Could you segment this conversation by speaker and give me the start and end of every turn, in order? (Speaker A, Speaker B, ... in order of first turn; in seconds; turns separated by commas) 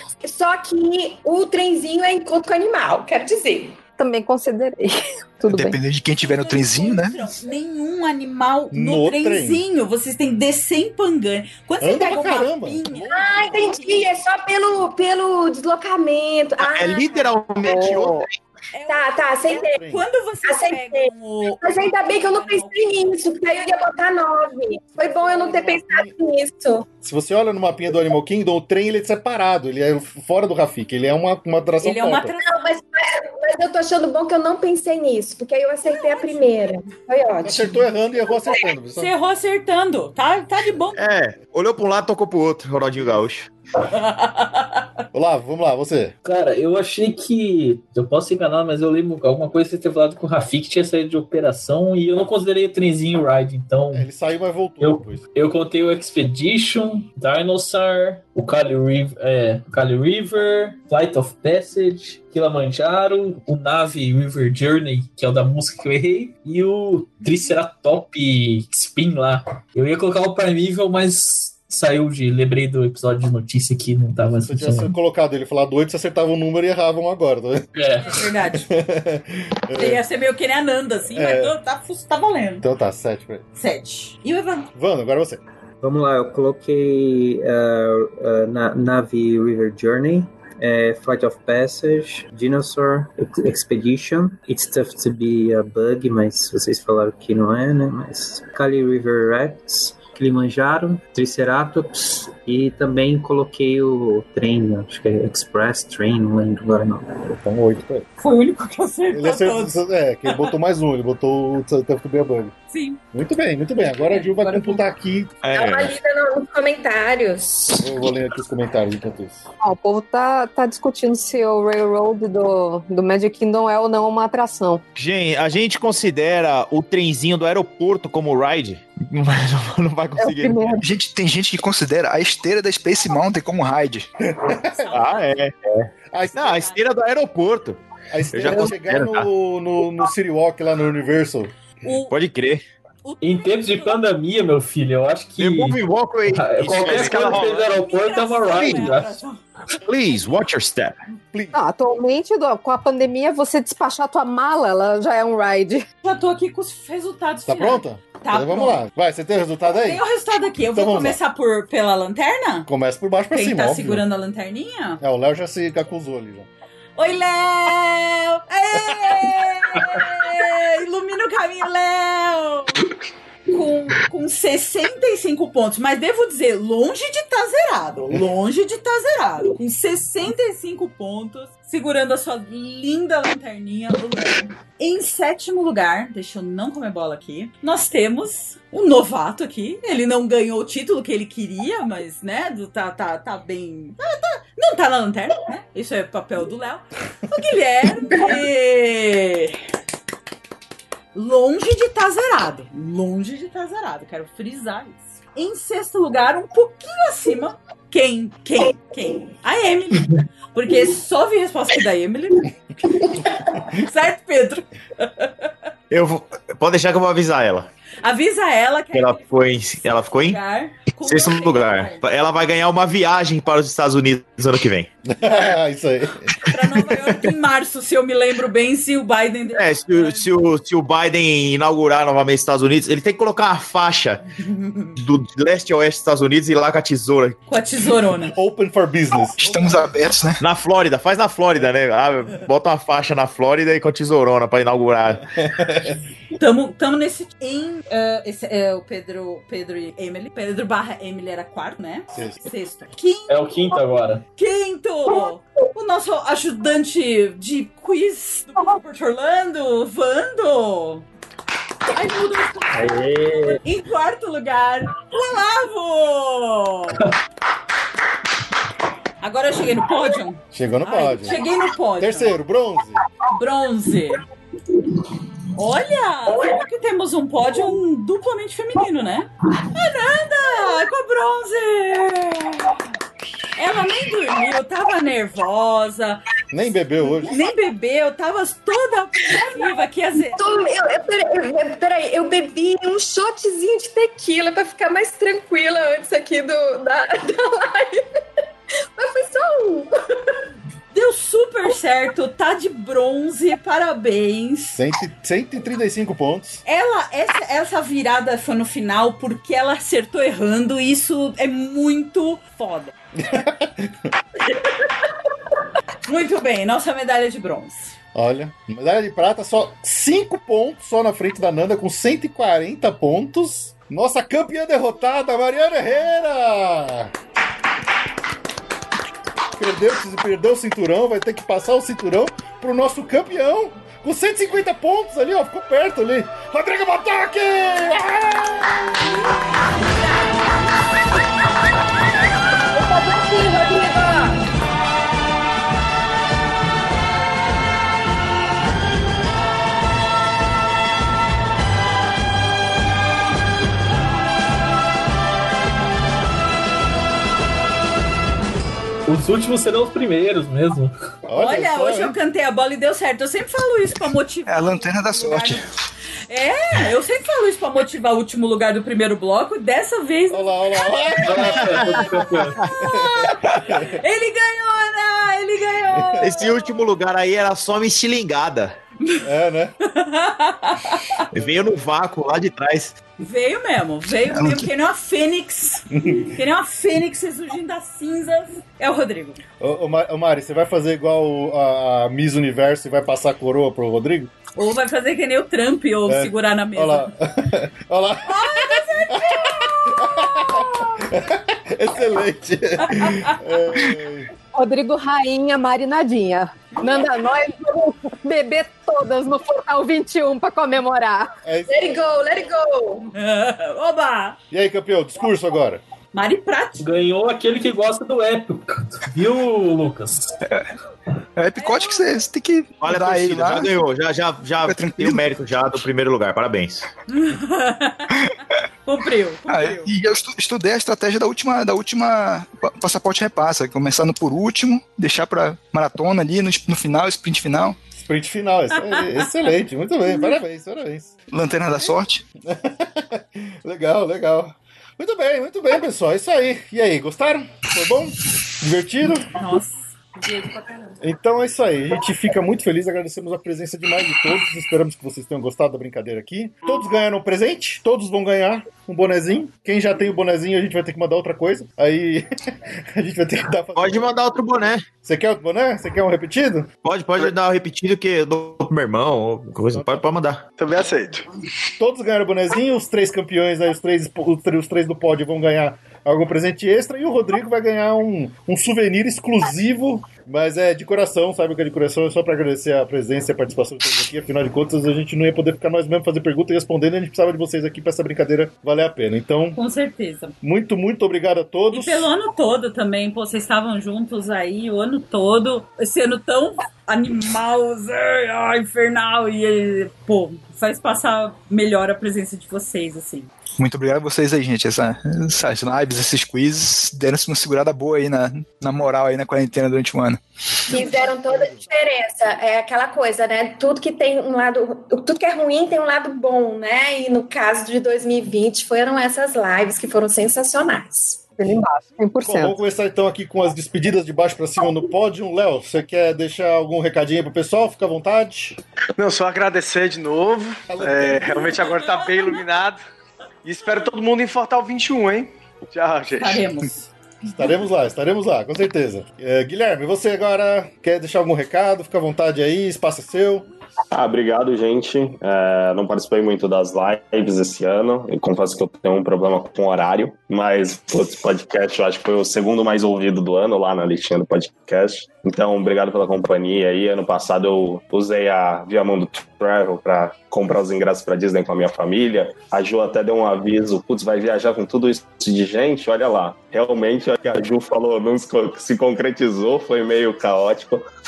Speaker A: 0.2-3.8, Speaker B: 4.0-5.8, Speaker C: 5.5-7.3, Speaker D: 6.2-14.1, Speaker E: 8.7-9.6, Speaker E: 11.8-13.1, Speaker A: 13.0-17.9, Speaker F: 16.6-18.3, Speaker B: 17.7-18.2, Speaker D: 18.7-22.9, Speaker A: 18.9-19.8, Speaker E: 19.8-20.0, Speaker A: 20.4-26.9, Speaker E: 25.0-26.1, Speaker E: 27.0-32.4, Speaker D: 31.8-32.7, Speaker A: 32.4-37.9, Speaker D: 35.8-36.9, Speaker E: 37.4-39.1, Speaker D: 39.0-41.0, Speaker F: 41.0-43.5, Speaker D: 43.9-44.8, Speaker E: 45.1-46.1, Speaker G: 46.2-54.1, Speaker E: 53.9-55.2, Speaker G: 54.8-75.0, Speaker E: 74.4-77.7, Speaker G: 77.8-78.2, Speaker D: 78.0-78.7, Speaker E: 78.2-80.0, Speaker D: 79.8-82.7, Speaker E: 81.1-81.5, Speaker E: 82.6-83.4, Speaker D: 83.6-84.7, Speaker E: 84.7-85.4, Speaker H: 85.8-107.4, Speaker E: 107.4-108.1, Speaker D: 108.2-109.8, Speaker E: 109.1-112.5, Speaker D: 110.3-110.5, Speaker D: 112.7-113.0, Speaker E: 113.1-115.4, Speaker D: 114.0-114.8, Speaker F: 115.4-116.0, Speaker A: 115.5-117.9, Speaker E: 117.8-119.5, Speaker B: 119.6-124.8, Speaker F: 125.0-130.7, Speaker B: 130.2-130.8, Speaker C: 130.8-134.1, Speaker E: 134.3-134.9, Speaker D: 134.7-135.3, Speaker F: 134.9-137.8, Speaker E: 136.1-136.6, Speaker D: 136.3-136.8, Speaker E: 138.1-141.5, Speaker F: 138.3-139.3, Speaker D: 141.8-142.2, Speaker F: 142.1-142.6, Speaker D: 143.0-144.0, Speaker G: 143.2-149.2, Speaker F: 145.4-147.6, Speaker I: 146.7-147.6, Speaker D: 147.1-149.4, Speaker F: 148.6-148.9, Speaker F: 149.8-151.0, Speaker E: 151.3-151.6, Speaker B: 151.5-155.9, Speaker D: 156.0-158.8, Speaker E: 157.5-160.0, Speaker D: 159.7-162.7, Speaker E: 160.7-161.2, Speaker E: 162.7-164.0, Speaker D: 163.3-165.0, Speaker E: 165.0-166.5, Speaker D: 167.0-172.9, Speaker D: 173.5-199.6, Speaker D: 201.1-215.3, Speaker F: 215.9-217.7, Speaker D: 218.0-222.1, Speaker F: 218.9-220.4, Speaker F: 221.1-224.9, Speaker E: 225.1-226.5, Speaker D: 226.4-230.3, Speaker F: 229.5-234.2, Speaker D: 234.4-234.9, Speaker F: 235.0-237.4, Speaker D: 237.5-238.4, Speaker E: 238.3-239.4, Speaker C: 239.4-240.4, Speaker D: 239.4-239.9, Speaker F: 240.4-245.2, Speaker E: 245.3-246.0, Speaker D: 246.4-253.8, Speaker E: 252.1-252.4, Speaker G: 253.3-254.2, Speaker D: 254.4-261.1, Speaker D: 261.9-267.1, Speaker H: 262.7-263.6, Speaker D: 269.2-272.4, Speaker E: 270.5-271.4, Speaker E: 272.0-273.0, Speaker D: 273.3-274.2, Speaker D: 275.5-282.8, Speaker D: 283.6-286.3, Speaker E: 286.5-287.4, Speaker D: 287.2-290.4, Speaker A: 290.3-298.1, Speaker A: 299.0-299.9, Speaker D: 300.9-304.8, Speaker E: 304.8-306.6, Speaker D: 306.7-312.9, Speaker E: 313.2-313.9, Speaker D: 316.1-317.9, Speaker E: 318.1-327.1, Speaker E: 329.6-338.5, Speaker A: 342.7-344.4, Speaker G: 359.1-360.9, Speaker E: 361.3-362.1, Speaker D: 361.4-365.6, Speaker C: 364.5-365.7, Speaker D: 366.3-372.1, Speaker E: 370.3-373.9, Speaker G: 371.2-372.6, Speaker F: 371.6-372.8, Speaker D: 372.8-376.7, Speaker E: 375.9-376.3, Speaker F: 376.2-378.8, Speaker E: 379.2-379.7, Speaker D: 379.9-381.2, Speaker F: 381.3-383.0, Speaker D: 383.2-389.4, Speaker C: 384.3-384.7, Speaker E: 385.9-386.3, Speaker E: 389.6-394.3, Speaker D: 394.6-397.1, Speaker E: 396.1-404.3, Speaker D: 398.3-401.1, Speaker B: 404.5-411.3, Speaker E: 411.4-412.1, Speaker A: 411.7-413.1, Speaker D: 413.1-414.4, Speaker E: 414.5-415.8, Speaker D: 416.1-416.9, Speaker G: 416.8-420.4, Speaker C: 420.4-420.7, Speaker C: 421.4-423.9, Speaker D: 421.6-422.1, Speaker F: 422.8-426.9, Speaker C: 424.6-425.8, Speaker D: 427.1-428.3, Speaker D: 428.9-429.9, Speaker C: 429.5-437.8, Speaker E: 437.9-441.1, Speaker C: 441.3-442.2, Speaker E: 442.5-449.3, Speaker D: 449.3-450.7, Speaker E: 451.0-462.3, Speaker E: 462.9-464.1, Speaker F: 463.8-464.9, Speaker E: 465.0-466.7, Speaker F: 466.8-470.4, Speaker E: 469.7-470.0, Speaker I: 470.6-471.3, Speaker E: 471.8-489.6, Speaker D: 489.6-490.3, Speaker E: 490.4-492.1, Speaker D: 491.7-503.3, Speaker C: 503.6-510.2, Speaker A: 510.7-521.4, Speaker B: 521.4-522.6, Speaker E: 522.2-528.6, Speaker I: 529.0-532.8, Speaker E: 530.7-531.6, Speaker I: 533.4-536.5, Speaker D: 536.2-536.9, Speaker E: 537.3-543.5, Speaker J: 543.9-570.9